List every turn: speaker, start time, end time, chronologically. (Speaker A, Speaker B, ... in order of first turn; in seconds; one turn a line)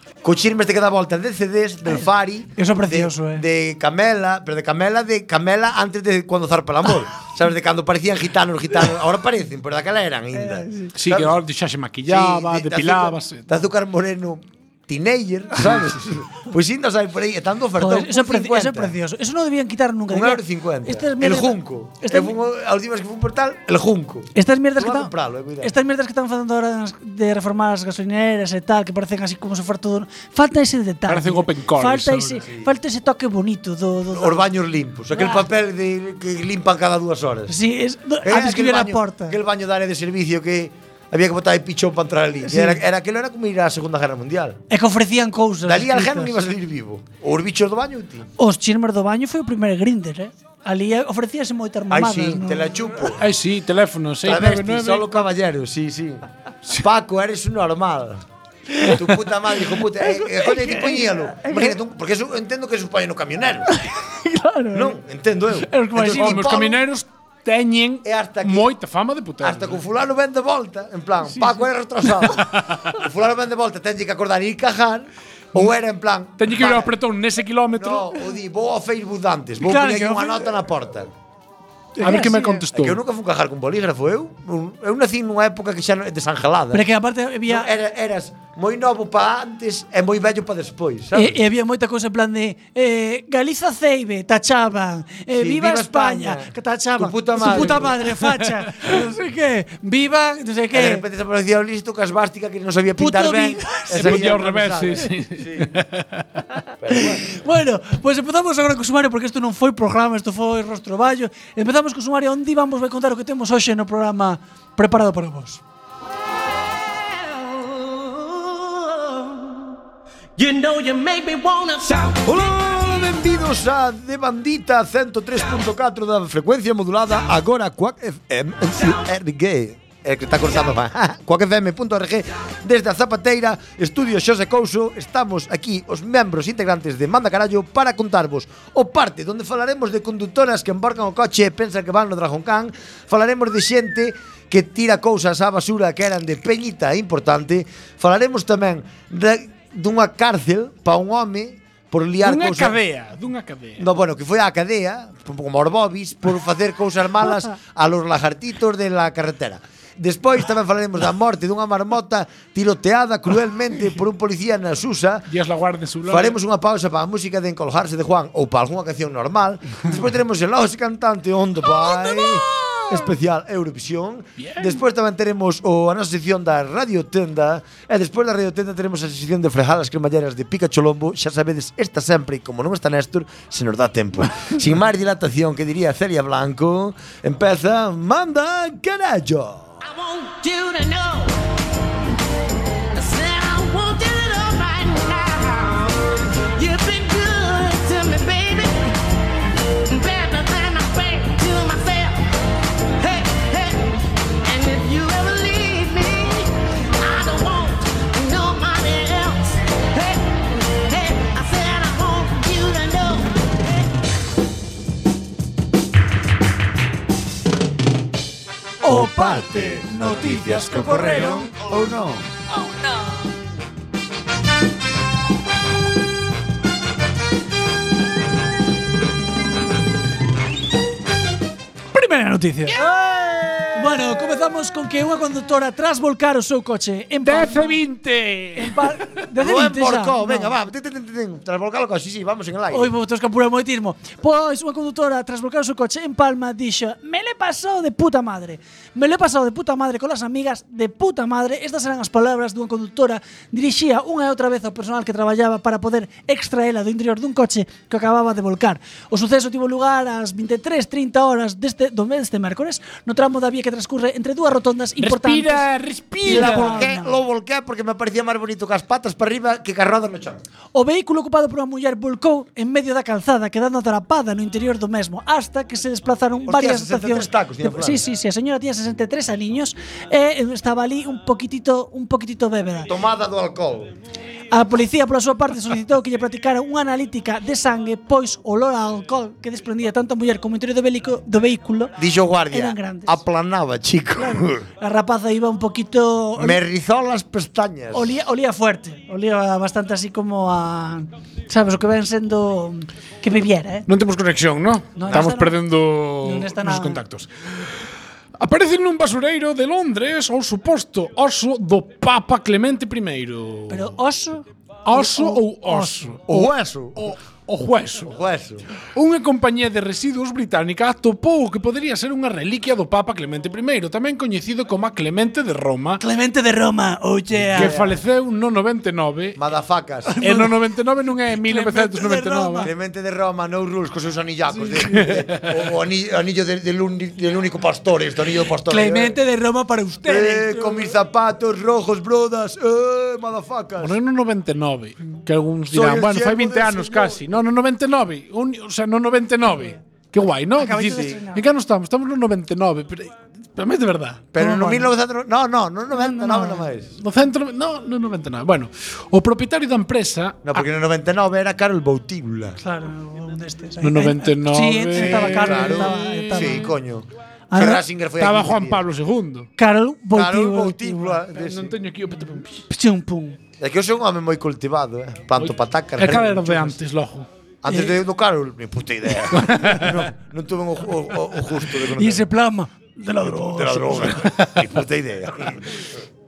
Speaker A: 0.2-11.4
Speaker B: 2.5-3.4
Speaker B: 10.3-10.9
Speaker C: 10.9-13.4
Speaker A: 12.1-18.9
Speaker B: 17.8-22.3
Speaker A: 20.1-25.7
Speaker B: 24.3-34.4
Speaker C: 31.1-32.4
Speaker A: 34.1-37.5
Speaker B: 35.1-35.5
Speaker B: 37.5-39.4
Speaker A: 38.2-44.6
Speaker B: 42.4-42.8
Speaker B: 44.7-46.4
Speaker A: 45.6-48.3
Speaker B: 48.4-52.8
Speaker A: 51.9-53.2
Speaker C: 53.2-55.2
Speaker A: 54.2-56.2
Speaker A: 56.8-58.2
Speaker A: 58.8-63.7
Speaker B: 60.0-61.8
Speaker B: 63.7-65.0
Speaker A: 64.7-66.8
Speaker B: 65.7-66.5
Speaker C: 66.0-69.8
Speaker A: 68.0-68.7
Speaker A: 69.4-76.9
Speaker B: 71.3-71.6
Speaker C: 76.4-78.1
Speaker A: 77.7-81.1
Speaker B: 79.6-80.5
Speaker B: 82.0-82.6
Speaker C: 82.0-83.0
Speaker A: 82.7-86.8
Speaker B: 86.7-87.7
Speaker A: 87.5-91.4
Speaker B: 91.1-101.0
Speaker A: 95.3-98.0
Speaker A: 100.7-105.7
Speaker B: 103.0-104.3
Speaker C: 103.9-106.2
Speaker A: 106.8-107.3
Speaker B: 106.9-115.6
Speaker D: 117.3-119.3
Speaker D: 120.4-122.3
Speaker A: 122.2-152.8
Speaker C: 152.2-153.8
Speaker A: 153.8-165.2
Speaker C: 165.3-166.4
Speaker A: 166.1-189.8
Speaker C: 174.4-174.8
Speaker D: 189.8-191.3
Speaker D: 192.9-196.0
Speaker D: 196.6-198.9
Speaker D: 199.9-202.2
Speaker D: 203.0-203.9
Speaker D: 204.4-213.7
Speaker B: 218.8-221.5
Speaker A: 218.8-222.2
Speaker B: 231.9-232.8
Speaker A: 232.8-234.0
Speaker B: 233.7-237.8
Speaker C: 237.2-238.9
Speaker B: 238.6-240.5
Speaker A: 239.4-242.9
Speaker B: 242.7-265.7
Speaker C: 265.0-266.9
Speaker B: 266.2-267.2
Speaker A: 266.3-270.4
Speaker B: 270.7-282.9
Speaker A: 276.5-278.0
Speaker A: 282.9-283.9
Speaker B: 284.5-292.0
Speaker A: 292.0-294.6
Speaker B: 292.5-293.1
Speaker B: 294.2-296.6
Speaker A: 296.4-298.1
Speaker B: 297.9-303.9
Speaker C: 303.9-307.8
Speaker B: 304.9-305.6
Speaker B: 306.2-307.0
Speaker C: 308.4-313.9
Speaker B: 313.7-316.5
Speaker C: 314.8-316.4
Speaker A: 316.3-317.0
Speaker C: 316.9-318.1
Speaker A: 318.1-318.6
Speaker C: 318.9-326.0
Speaker B: 326.0-327.7
Speaker A: 327.4-328.0
Speaker C: 327.5-329.4
Speaker A: 329.4-330.1
Speaker B: 330.1-330.6
Speaker C: 330.2-332.7
Speaker B: 331.3-332.7
Speaker A: 332.6-339.2
Speaker B: 334.5-335.1
Speaker C: 334.9-335.5
Speaker B: 338.7-340.9
Speaker A: 340.0-343.9
Speaker C: 343.8-354.2
Speaker A: 345.7-347.2
Speaker B: 350.6-351.4
Speaker A: 350.9-351.2
Speaker A: 354.3-356.9
Speaker B: 354.4-354.9
Speaker B: 355.9-356.7
Speaker C: 357.0-360.6
Speaker A: 360.4-362.6
Speaker B: 362.6-366.7
Speaker C: 363.8-366.7
Speaker A: 364.9-368.8
Speaker B: 367.5-367.8
Speaker C: 368.2-369.5
Speaker B: 369.6-371.2
Speaker A: 370.1-371.7
Speaker C: 371.3-372.6
Speaker B: 372.7-373.4
Speaker A: 373.6-376.8
Speaker C: 375.4-377.3
Speaker A: 377.6-382.2
Speaker B: 377.7-377.9
Speaker C: 379.3-380.1
Speaker B: 381.9-384.1
Speaker A: 383.2-385.8
Speaker C: 384.2-384.5